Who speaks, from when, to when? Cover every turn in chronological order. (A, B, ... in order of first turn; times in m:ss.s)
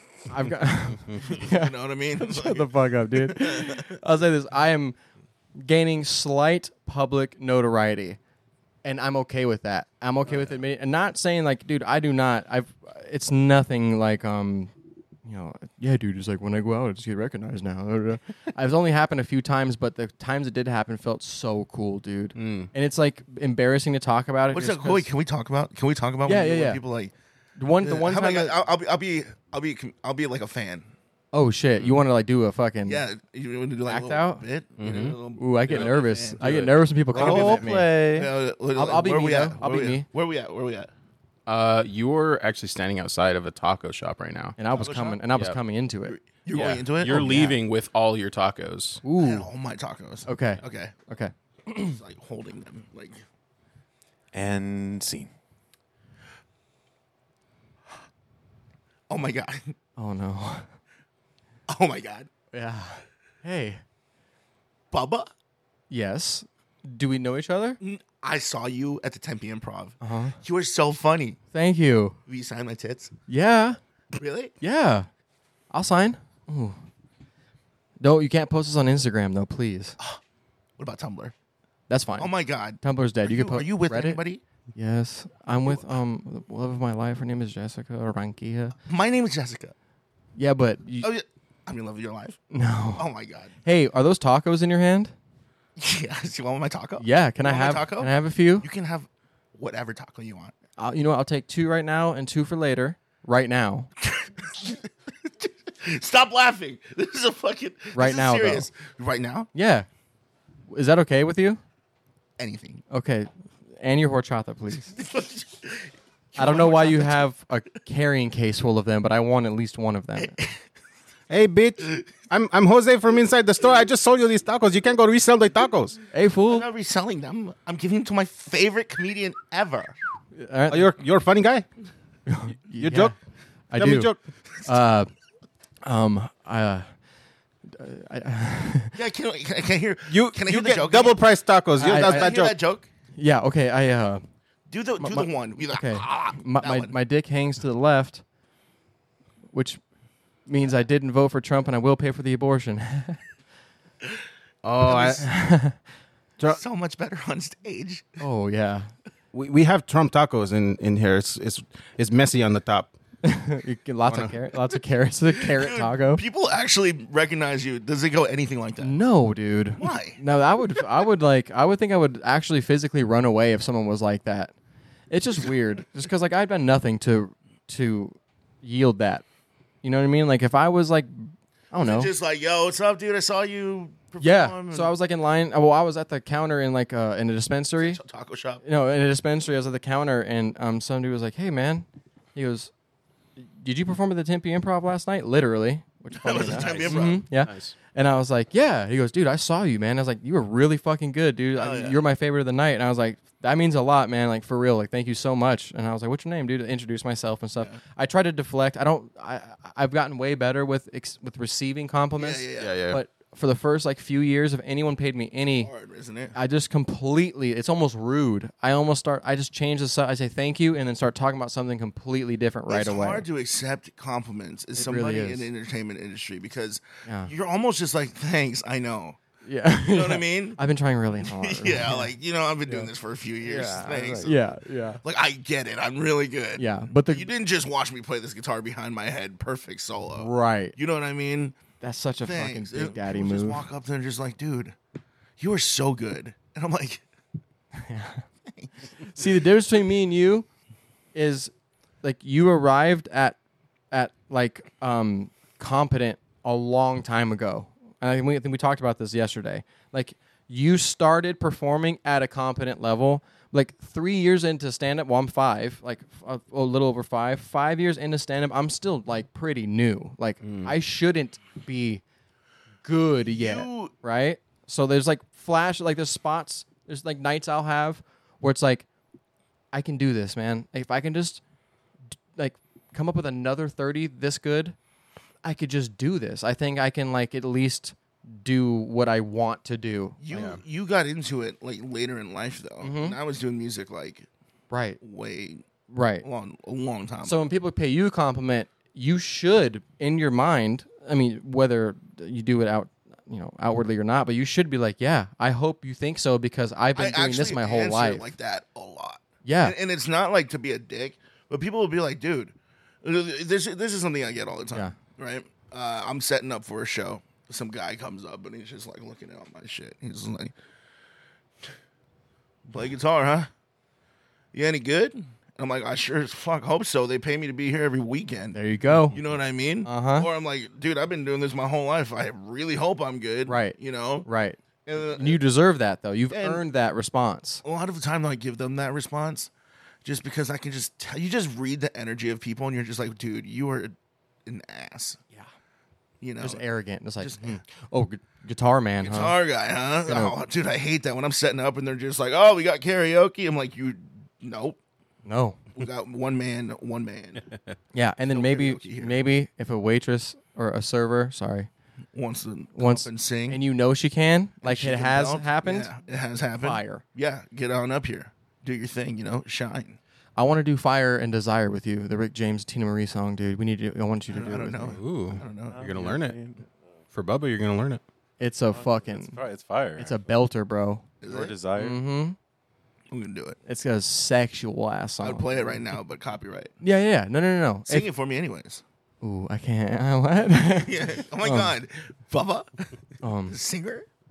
0:00.3-0:05.0 A
0:00.9-0:01.4 B
0:01.3-0:03.9 C
0:05.6-0:08.2 A
0:08.8-0:14.7 A
0:15.2-0:25.1 A
0:22.3-0:22.7 B
0:24.5-0:27.1 C
0:26.2-0:26.8 A
0:27.6-0:28.6 A
0:27.8-0:30.9 C
0:31.3-0:33.0 A
0:32.8-0:36.6 C
0:33.8-0:34.4 A
0:34.8-0:38.3 B
0:35.4-0:37.9 A
0:37.1-0:40.9 C
0:38.7-0:40.1 A
0:41.4-0:44.6 B
0:44.6-0:46.2 A
0:44.7-0:45.2 C
0:46.1-0:47.3 C
0:46.5-0:49.0 B
0:47.1-0:47.6 A
0:49.0-0:49.5 A
0:49.1-0:51.0 C
0:50.2-0:52.0 A
0:51.8-0:53.2 C
0:54.3-0:55.3 D
0:59.1-0:59.7 C
1:00.0-1:00.7 A
1:01.7-1:02.3 C
1:02.5-1:03.8 A
1:04.9-1:05.3 C
1:05.9-1:07.8 A
1:07.8-1:11.4 C
1:10.0-1:10.4 A
1:11.5-1:12.2 A
1:12.3-1:13.1 C
1:13.3-1:13.8 A
1:14.1-1:14.5 C
1:14.6-1:15.1 A
1:15.7-1:16.8 A
1:18.0-1:20.0 A
1:20.8-1:21.3 C
1:21.9-1:24.2 A
1:22.2-1:24.4 C
1:24.7-1:28.7 A
1:28.8-1:29.7 C
1:30.4-1:31.1 A
1:31.0-1:32.4 C
1:32.5-1:33.1 A
1:33.0-1:33.5 C
1:33.6-1:35.1 A
1:35.8-1:40.5 C
1:37.0-1:38.7 A
1:40.8-1:43.9 A
1:44.0-1:49.5 C
1:47.9-1:48.7 A
1:49.5-1:49.9 A
1:50.7-1:51.6 A
1:52.4-1:52.8 C
1:52.9-1:54.9 A
1:54.9-1:57.2 C
1:56.4-2:00.4 A
2:00.2-2:00.5 C
2:01.3-2:06.0 B
2:06.1-2:06.7 A
2:06.5-2:09.9 C
2:10.4-2:10.9 A
2:10.7-2:11.6 B
2:12.3-2:13.1 A
2:12.8-2:13.1 B
2:13.7-2:15.1 A
2:13.8-2:14.2 B
2:15.8-2:16.9 A
2:17.6-2:19.0 A
2:18.9-2:21.2 C
2:20.1-2:22.5 B
2:21.8-2:22.4 A
2:21.8-2:22.9 C
2:23.1-2:24.2 A
2:24.7-2:26.9 C
2:25.0-2:28.2 A
2:29.5-2:29.8 A
2:30.4-2:33.2 A
2:34.6-2:35.3 B
2:34.8-2:35.8 A
2:34.9-2:35.2 C
2:36.4-2:38.2 C
2:38.2-2:38.9 A
2:39.3-2:42.9 B
2:43.2-2:46.2 A
2:44.1-2:44.4 B
2:45.4-2:49.0 C
2:48.8-2:54.5 A
2:49.8-2:50.2 C
2:55.1-2:59.2 A
2:59.8-3:02.1 A
3:01.8-3:04.9 C
3:04.2-3:08.0 A
3:07.8-3:08.6 C
3:08.6-3:12.7 A
3:13.4-3:35.7 A
3:16.1-3:17.2 C
3:16.4-3:17.7 B
3:21.6-3:22.0 C
3:32.2-3:32.8 C
3:32.6-3:33.0 B
3:35.6-3:36.3 C
3:36.3-3:43.2 A
3:42.7-3:49.2 C
3:44.8-3:45.5 A
3:47.0-3:47.3 A
3:49.4-3:52.1 A
3:49.8-3:50.6 C
3:51.2-3:54.4 C
3:53.4-3:55.0 A
3:55.0-4:01.6 C
3:56.6-3:57.3 A
4:00.2-4:00.8 A
4:01.8-4:03.6 A
4:02.2-4:04.8 C
4:05.4-4:07.0 C
4:07.7-4:08.2 A
4:09.1-4:10.5 A
4:11.1-4:11.5 A
4:12.0-4:13.4 A
4:13.9-4:32.0 A
4:30.4-4:30.7 B
4:32.8-4:38.9 A
4:33.3-4:33.9 C
4:39.7-4:41.4 A
4:42.3-4:44.8 A
4:45.4-4:50.2 A
4:50.2-4:54.3 C
4:50.3-4:50.6 B
4:52.8-4:53.2 A
4:54.7-4:55.0 A
4:55.0-4:55.6 C
4:55.9-4:56.2 A
4:56.2-4:57.4 C
4:57.2-5:08.3 A
5:06.9-5:20.5 C
5:09.4-5:09.8 A
5:22.7-5:23.5 C
5:24.5-5:28.6 C
5:28.5-5:29.2 A
5:29.1-5:34.3 C
5:29.8-5:30.3 A
5:33.5-5:34.6 A
5:34.8-5:35.4 C
5:35.1-5:37.6 A
5:36.3-5:36.6 C
5:37.6-5:39.5 C
5:40.0-5:45.2 C
5:46.2-5:46.6 C
5:46.4-5:49.4 A
5:47.2-5:47.6 C
5:49.0-5:54.8 C
5:50.0-5:50.4 A
5:55.2-5:55.6 A
5:55.8-5:57.5 C
5:57.9-6:01.7 A
5:58.3-5:59.2 C
6:02.1-6:03.6 C
6:02.8-6:05.9 A
6:04.6-6:10.0 C
6:06.6-6:07.0 A
6:10.4-6:15.0 A
6:14.3-6:16.1 C
6:14.9-6:16.4 B
6:15.7-6:17.0 D
6:17.1-6:18.0 B
6:18.4-6:19.4 A
6:18.7-6:20.3 D
6:20.0-6:21.0 A
6:21.2-6:21.5 C
6:21.2-6:22.0 D
6:21.8-6:22.4 A
6:23.1-6:23.6 C
6:23.6-6:25.8 A
6:25.2-6:26.7 C
6:26.8-6:28.1 A
6:27.8-6:28.8 C
6:29.2-6:31.7 A
6:30.8-6:33.0 C
6:33.2-6:33.6 A
6:33.5-6:34.1 C